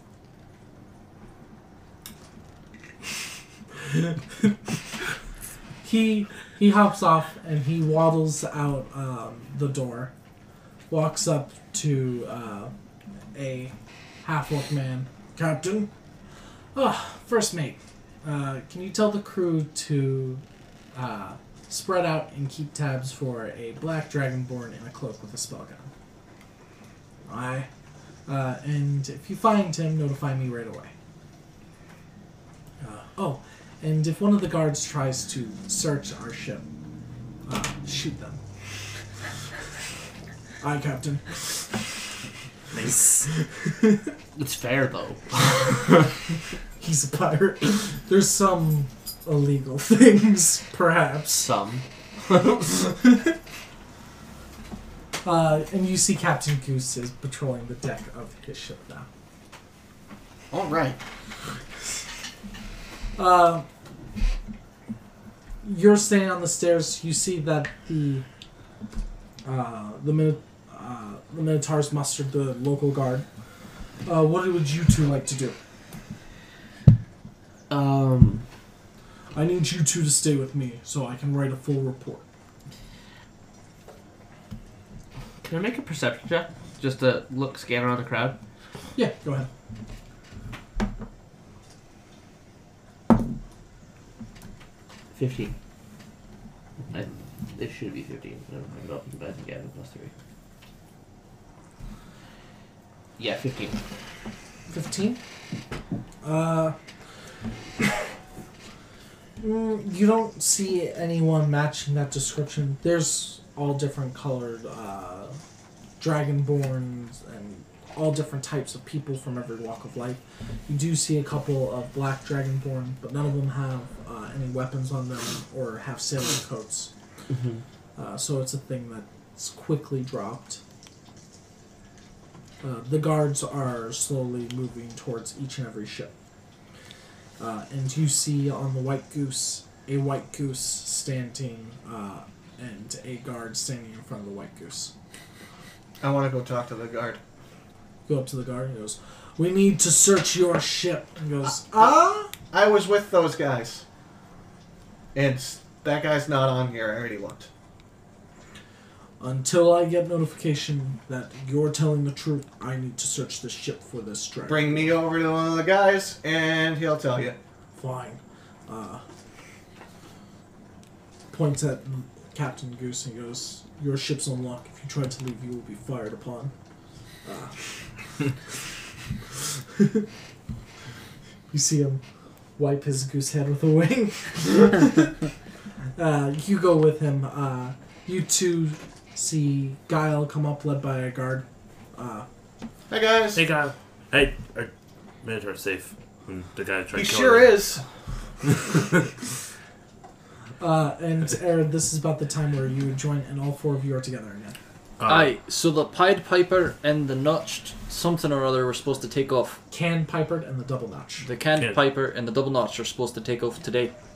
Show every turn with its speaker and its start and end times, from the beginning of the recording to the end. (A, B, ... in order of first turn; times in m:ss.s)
0:05.8-0:10.1 A
0:10.9-0:12.7 A
0:13.3-0:15.9 A
0:16.7-0:20.4 A
0:20.9-0:25.9 A
0:27.3-0:27.7 A
0:28.3-0:30.9 A
0:32.8-0:36.6 A
0:37.4-0:38.4 A
0:40.6-0:41.8 A
0:43.3-0:44.1 A
0:44.3-0:46.0 B
0:46.8-0:51.5 A
0:51.4-0:52.8 B
0:53.0-0:53.3 A
0:55.2-0:59.1 A
1:00.5-1:01.0 C
1:03.2-1:03.6 A
1:05.6-1:08.2 A
1:09.4-1:13.2 A
1:14.0-1:15.6 A
1:17.7-1:18.4 B
1:19.3-1:22.2 A
1:25.4-1:28.4 B
1:28.9-1:29.5 A
1:35.1-1:35.5 B
1:36.9-1:40.1 B
1:43.2-1:43.8 B
1:44.7-1:45.2 A
1:46.2-1:46.7 A
1:49.4-1:55.4 A
1:56.0-2:06.9 A
2:07.3-2:07.6 B
2:08.0-2:10.6 A
2:12.6-2:16.1 A
2:17.4-2:24.9 A
2:26.0-2:27.2 C
2:28.1-2:32.3 A
2:32.5-2:33.8 C
2:35.1-2:37.5 C
2:39.2-2:45.0 A
2:44.5-2:47.4 C
2:47.8-2:49.0 A
2:51.3-2:56.5 A
2:57.2-2:57.6 A
2:59.4-3:00.0 A
3:01.5-3:02.0 A
3:02.6-3:05.2 A
3:06.0-3:12.2 A
3:12.9-3:13.4 C
3:13.3-3:17.6 D
3:16.9-3:17.8 C
3:20.6-3:24.6 A
3:25.0-3:25.3 D
3:25.0-3:29.6 E
3:29.7-3:31.3 A
3:31.2-3:33.9 E
3:31.6-3:31.8 D